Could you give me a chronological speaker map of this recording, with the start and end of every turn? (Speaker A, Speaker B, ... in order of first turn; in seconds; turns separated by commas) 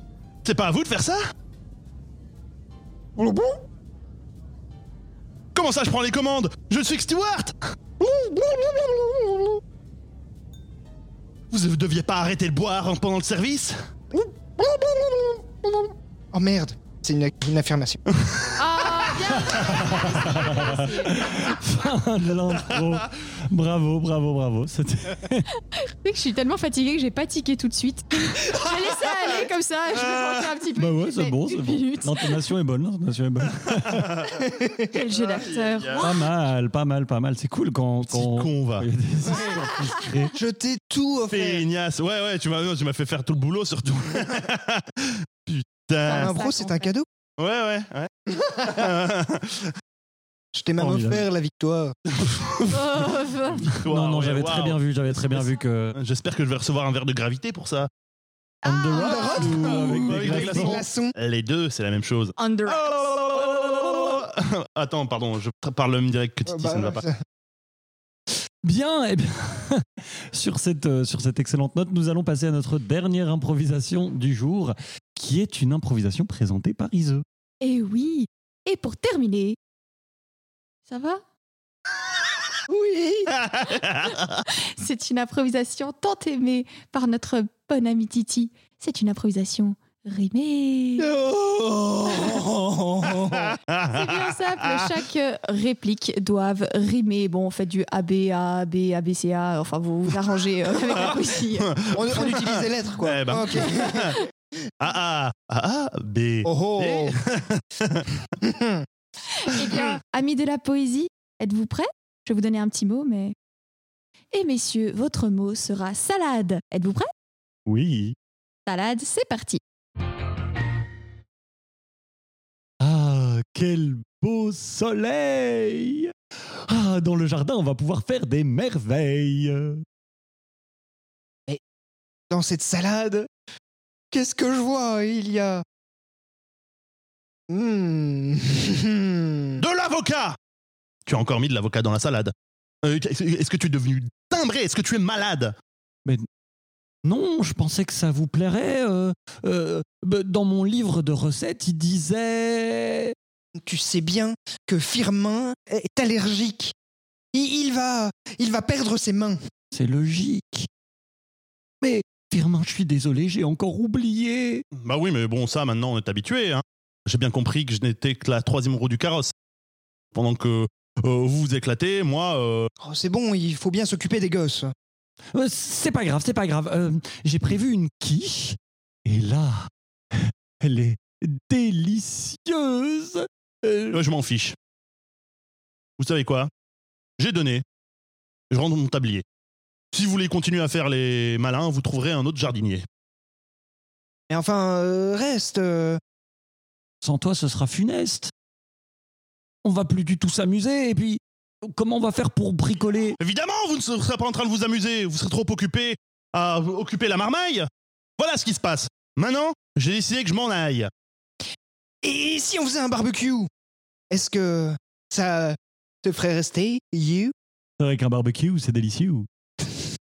Speaker A: 0.5-1.2, Speaker B: 3.2-3.6, Speaker A: 5.5-7.5, Speaker B: 8.0-9.6, Speaker A: 11.5-13.8, Speaker B: 14.1-18.0, Speaker A: 18.2-19.8, Speaker C: 18.6-21.6, Speaker D: 19.4-25.5, Speaker C: 25.7-32.5, Speaker A: 29.9-30.5, Speaker D: 30.8-34.2, Speaker A: 33.9-34.3, Speaker B: 34.4-35.0, Speaker C: 34.9-36.3, Speaker A: 35.1-36.1, Speaker D: 36.0-40.4, Speaker A: 38.1-38.9, Speaker B: 40.4-41.7, Speaker A: 41.3-46.3, Speaker C: 46.0-46.9, Speaker B: 46.1-47.1, Speaker A: 47.4-49.7, Speaker B: 50.5-52.0, Speaker D: 50.8-51.3, Speaker A: 52.2-52.8, Speaker C: 52.7-53.7, Speaker A: 53.7-57.9, Speaker D: 53.7-56.0, Speaker C: 58.6-60.0, Speaker D: 58.6-60.8, Speaker B: 58.9-61.1, Speaker A: 59.6-67.0, Speaker C: 62.4-63.3, Speaker B: 66.5-67.2, Speaker D: 68.6-77.2, Speaker C: 77.6-79.6, Speaker C: 80.9-81.2, Speaker B: 82.7-83.3, Speaker A: 83.3-84.4, Speaker C: 84.5-91.1, Speaker B: 91.0-93.6, Speaker A: 93.2-94.8, Speaker C: 93.9-102.3, Speaker A: 101.5-104.2, Speaker B: 101.9-104.2, Speaker A: 104.8-108.2, Speaker B: 106.4-107.2, Speaker B: 108.4-108.9, Speaker C: 109.4-113.3, Speaker C: 114.3-117.1, Speaker D: 117.7-118.2, Speaker C: 118.7-119.6, Speaker D: 122.8-126.1, Speaker D: 126.7-129.8, Speaker B: 132.3-133.3, Speaker B: 134.1-135.7, Speaker B: 137.5-139.6, Speaker A: 139.6-140.4, Speaker A: 141.1-142.3, Speaker A: 142.8-145.6, Speaker D: 147.1-153.2, Speaker B: 153.6-156.8, Speaker B: 157.3-159.4, Speaker D: 159.7-160.7, Speaker D: 161.8-164.6, Speaker A: 164.8-169.3, Speaker A: 170.1-172.7, Speaker B: 172.8-174.7, Speaker D: 175.3-184.0, Speaker A: 183.9-184.6, Speaker A: 186.0-186.5, Speaker A: 187.2-187.6, Speaker A: 188.5-189.2, Speaker A: 189.9-192.9, Speaker B: 194.3-196.0, Speaker D: 197.0-198.3, Speaker D: 199.6-203.2, Speaker A: 203.2-210.9, Speaker B: 212.0-213.5, Speaker B: 214.1-217.3, Speaker D: 217.8-219.3